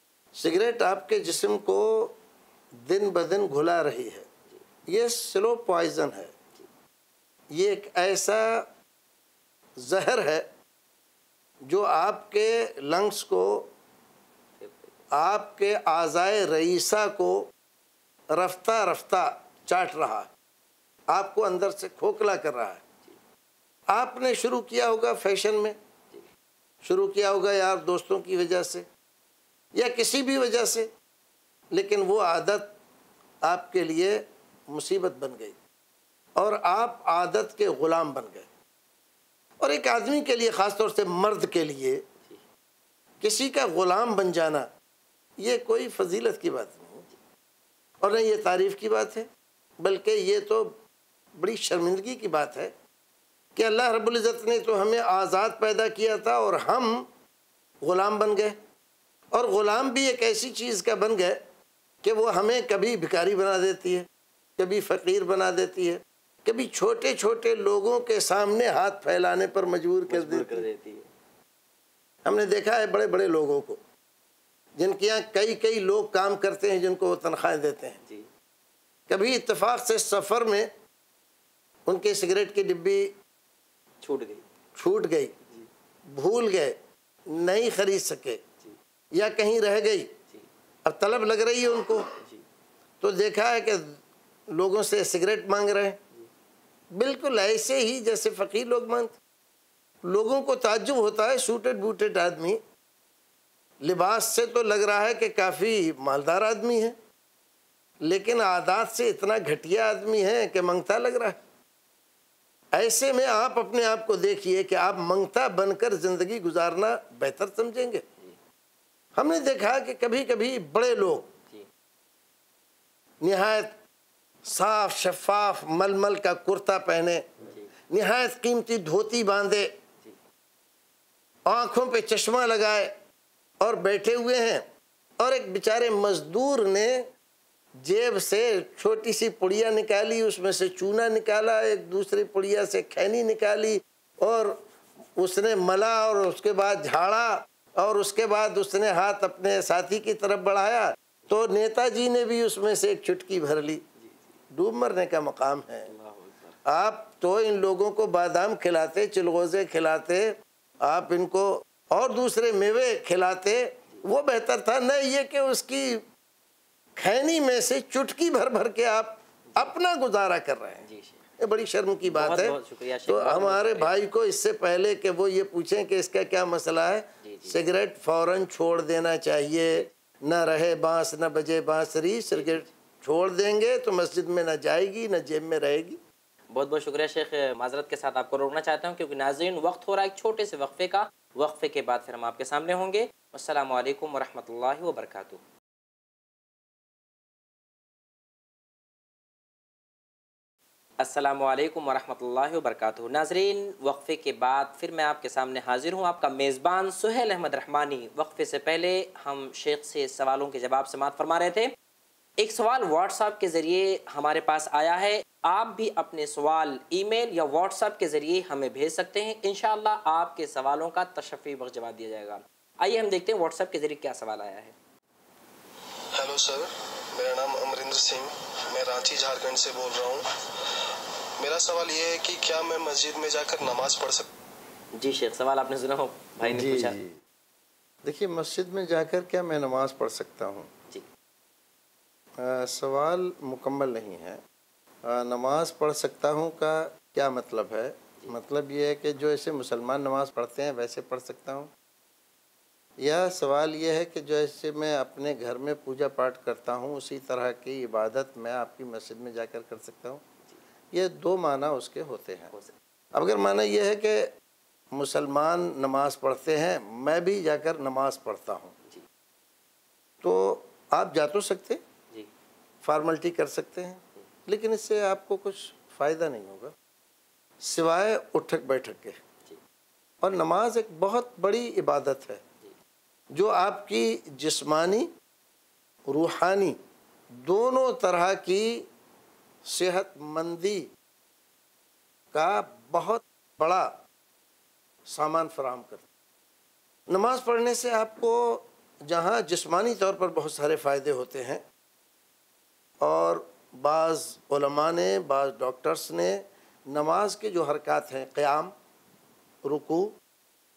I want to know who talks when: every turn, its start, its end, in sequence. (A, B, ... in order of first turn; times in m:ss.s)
0:00.3-0:02.2 A
0:02.8-0:04.3 A
0:04.9-0:06.3 A
0:07.5-0:08.7 A
0:09.8-0:10.5 A
0:11.6-0:13.7 A
0:14.6-0:15.0 B
0:15.1-0:17.5 A
0:18.3-0:20.3 A
0:21.1-0:22.8 A
0:23.9-0:25.8 A
0:26.8-0:28.9 A
0:29.8-0:30.9 A
0:31.7-0:32.7 A
0:33.4-0:35.6 A
0:36.4-0:38.5 A
0:39.6-0:42.0 A
0:43.2-0:44.7 A
0:45.4-0:47.1 A
0:48.0-0:49.3 A
0:49.8-0:50.8 A
0:51.4-0:52.7 A
0:53.6-0:57.1 A
0:57.8-0:58.6 A
0:59.3-1:01.4 A
1:02.0-1:10.7 A
1:10.1-1:11.1 B
1:12.2-1:13.8 A
1:14.8-1:18.0 A
1:18.0-1:18.3 B
1:19.1-1:20.7 A
1:21.9-1:23.2 A
1:24.0-1:24.4 B
1:24.8-1:25.3 A
1:26.1-1:26.8 A
1:27.3-1:28.4 A
1:29.1-1:30.1 A
1:30.8-1:32.1 A
1:32.2-1:32.4 B
1:33.0-1:34.0 A
1:34.5-1:36.0 A
1:36.9-1:39.2 A
1:40.0-1:42.6 A
1:43.8-1:47.0 A
1:48.0-1:51.4 A
1:52.7-1:58.0 A
1:59.2-2:01.3 A
2:03.2-2:03.8 A
2:04.4-2:07.3 A
2:07.9-2:09.7 A
2:11.5-2:12.9 A
2:13.6-2:14.7 A
2:15.2-2:17.1 A
2:17.8-2:24.6 A
2:25.2-2:33.8 A
2:34.0-2:34.4 B
2:34.5-2:35.9 A
2:35.9-2:36.6 B
2:36.6-2:46.0 A
2:47.0-2:50.9 A
2:49.5-2:49.8 B
2:50.8-2:51.3 B
2:51.4-3:06.0 A
2:52.1-2:53.9 B
2:57.2-2:57.6 B
3:02.3-3:02.7 B
3:06.5-3:15.4 B
3:21.0-3:31.7 B
3:32.4-3:44.7 B
3:46.2-3:54.3 C
3:54.9-3:57.0 B
3:56.4-3:57.2 A
3:58.0-4:00.7 A
4:02.4-4:04.4 A
4:05.0-4:11.7 A
4:13.0-4:20.2 A
4:20.9-4:22.5 A
4:23.1-4:24.3 A
4:24.9-4:28.7 A
4:30.2-4:31.8 A
4:32.8-4:36.7 A
4:37.6-4:39.2 A
4:40.2-4:42.4 A
4:43.3-4:45.1 A
4:46.1-4:46.8 A
4:47.4-4:48.9 A
4:49.6-4:50.9 A
4:52.3-4:54.0 A
4:55.1-4:56.0 A
4:57.1-5:01.6 A
5:03.0-5:08.7 A
5:09.6-5:10.2 A